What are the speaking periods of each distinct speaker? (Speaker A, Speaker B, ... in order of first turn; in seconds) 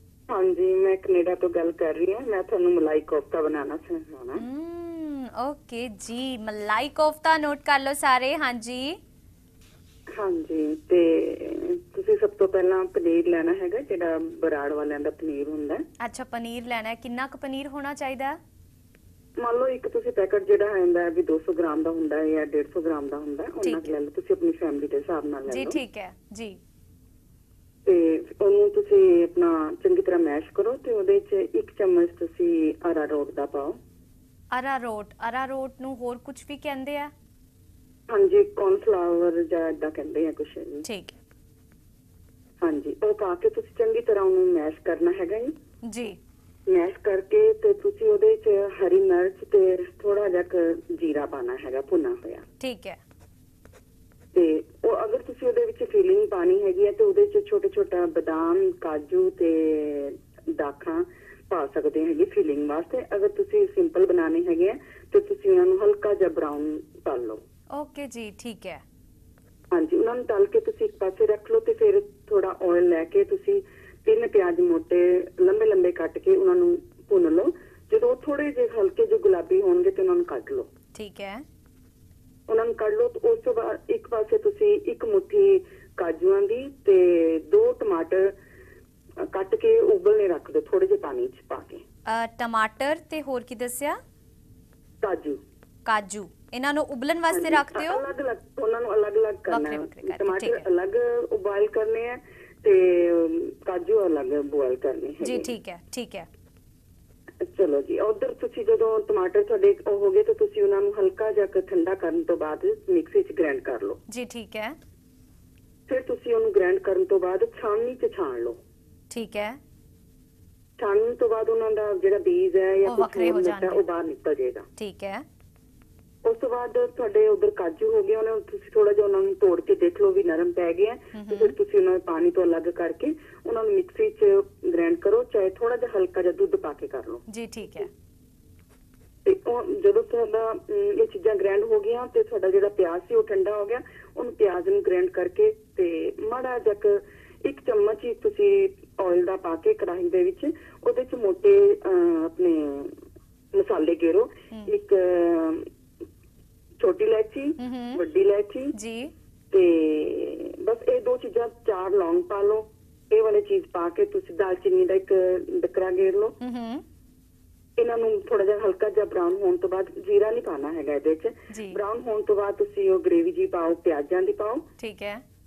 Speaker A: 0.3-4.4, 10.1-15.8, 19.4-25.8, 27.9-33.8, 38.1-40.9, 42.6-45.5, 46.7-52.4, 54.3-67.4, 69.7-80.7, 82.5-88.3, 89.2-91.8, 95.0-95.4, 97.3-105.5, 107.4-114.0, 115.9-118.6, 120.8-124.7, 126.2-137.9, 139.3-153.0, 153.5-155.7, 156.8-158.7, 159.5-166.4, 167.8-174.6
Speaker B: 4.3-9.0, 16.0-18.4, 23.6-23.9, 25.5-26.6, 34.5-37.1, 40.9-41.1, 45.9-46.2, 52.6-53.0, 67.7-68.8, 81.0-81.4, 92.1-94.0, 95.9-98.0, 99.5-100.7, 105.2-106.3, 114.1-114.8, 119.1-119.6, 122.9-123.8, 124.8-125.2, 131.1-131.6, 137.3-137.9, 157.6-158.0, 158.7-159.1, 166.4-166.8, 171.5-171.8, 174.8-175.2